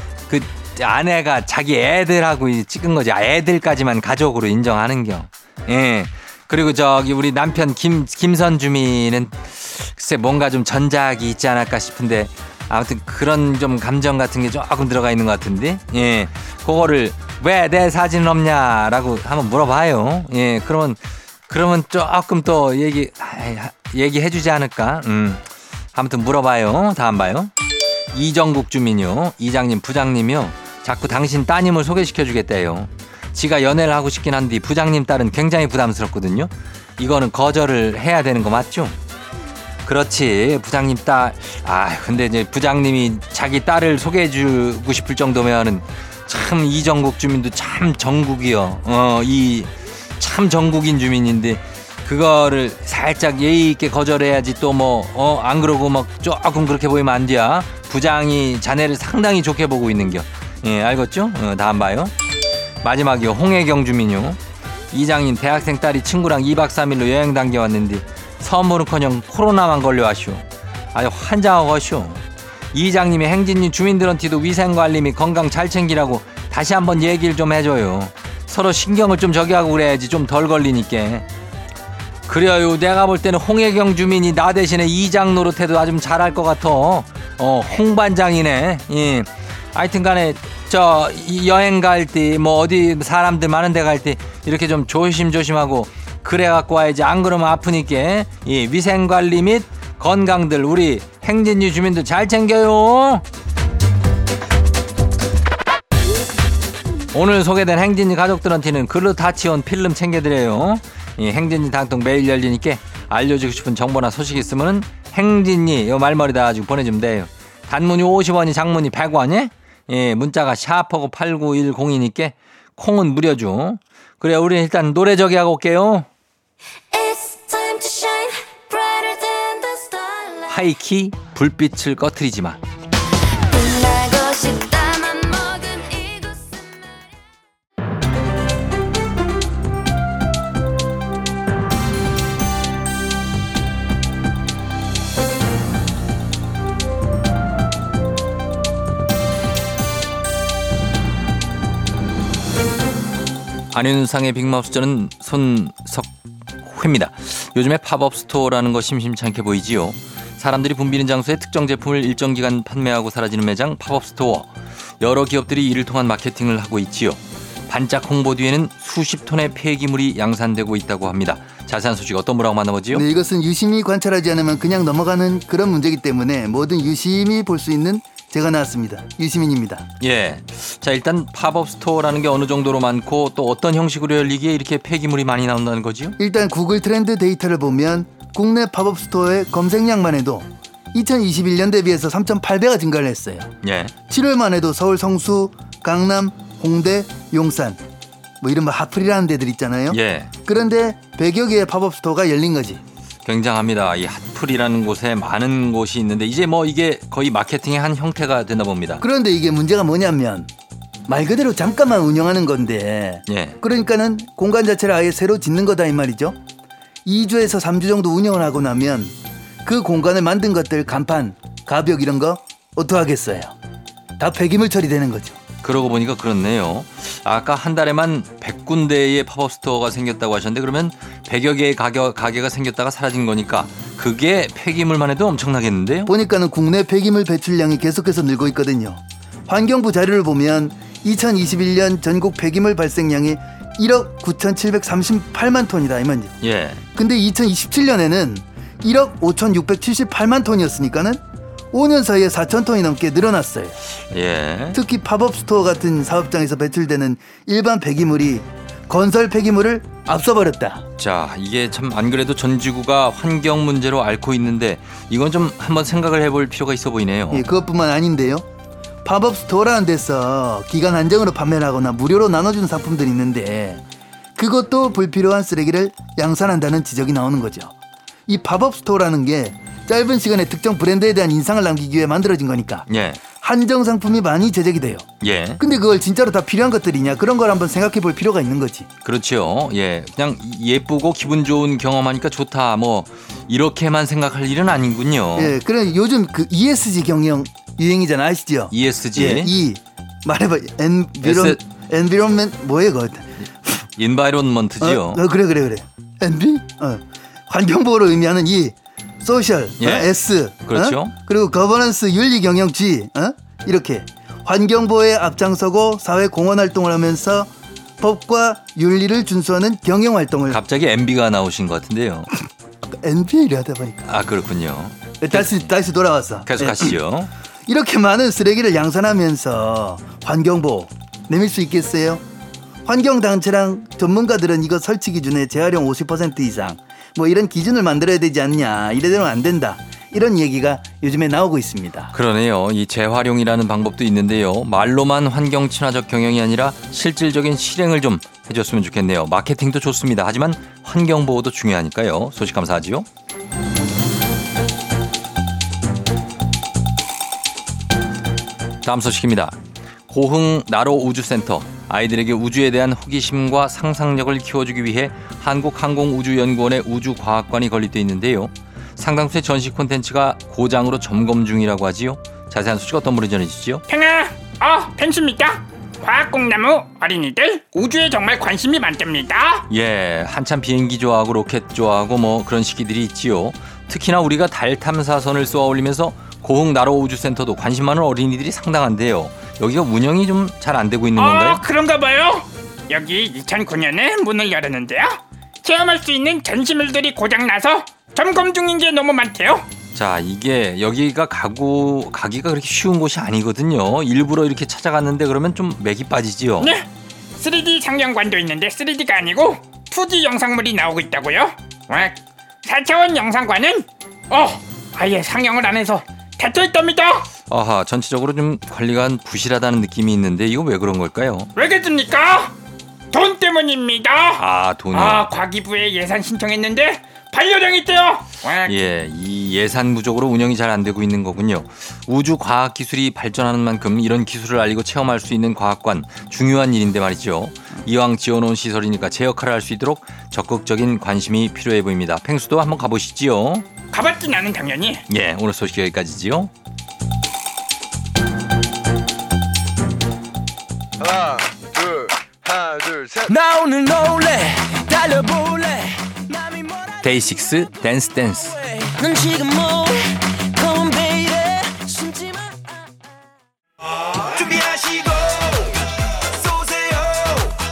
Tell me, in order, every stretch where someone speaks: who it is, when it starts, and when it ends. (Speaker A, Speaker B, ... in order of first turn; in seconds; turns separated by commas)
Speaker A: 0.3-27.5, Speaker A: 28.1-39.0, Speaker A: 39.8-62.1, Speaker A: 62.8-64.4, Speaker A: 64.9-81.2, Speaker A: 82.3-103.2, Speaker A: 107.1-126.1, Speaker B: 126.9-130.7, Speaker A: 130.5-132.6, Speaker B: 133.5-137.1, Speaker A: 153.7-173.0, Speaker C: 172.9-179.8, Speaker A: 180.0-186.2, Speaker C: 186.2-193.5, Speaker A: 193.6-193.9, Speaker C: 194.1-197.8, Speaker C: 198.4-202.8, Speaker A: 199.9-200.3, Speaker A: 203.2-209.0, Speaker C: 209.0-210.5, Speaker C: 211.1-216.4, Speaker A: 213.3-213.6, Speaker C: 217.0-223.5, Speaker C: 224.2-225.4, Speaker A: 225.6-236.1, Speaker C: 236.1-246.3, Speaker A: 246.4-246.8, Speaker C: 246.9-253.8, Speaker A: 254.1-254.8, Speaker C: 254.7-260.8, Speaker A: 261.0-267.4, Speaker C: 267.3-268.4, Speaker C: 269.0-273.8, Speaker C: 274.4-277.7, Speaker C: 278.3-282.9, Speaker A: 282.9-283.2, Speaker C: 283.4-288.9, Speaker A: 285.2-285.6, Speaker A: 289.0-295.6, Speaker C: 295.4-303.5, Speaker A: 298.7-299.5, Speaker A: 301.2-301.6, Speaker A: 303.8-305.2, Speaker C: 304.8-320.6, Speaker A: 309.8-310.1, Speaker A: 310.6-311.1, Speaker A: 320.5-322.3, Speaker C: 323.0-324.0, Speaker A: 324.0-325.7, Speaker C: 325.2-327.0, Speaker A: 326.4-327.3, Speaker C: 327.7-332.2, Speaker C: 332.8-342.1, Speaker A: 342.1-353.1, Speaker A: 358.8-359.6, Speaker A: 360.1-373.8, Speaker D: 373.9-379.6, Speaker A: 379.7-391.6, Speaker D: 391.1-399.7, Speaker A: 399.9-406.7, Speaker D: 406.6-406.8, Speaker D: 407.4-417.2, Speaker A: 417.5-421.5, Speaker D: 421.6-422.5, Speaker D: 423.1-424.4, Speaker A: 424.4-425.2, Speaker D: 424.9-428.7, Speaker A: 428.6-443.7, Speaker D: 443.9-445.0, Speaker A: 445.1-446.5, Speaker E: 451.0-453.3, Speaker A: 453.3-454.0, Speaker B: 453.4-456.9, Speaker A: 457.0-458.6, Speaker B: 458.8-462.6, Speaker B: 464.6-465.0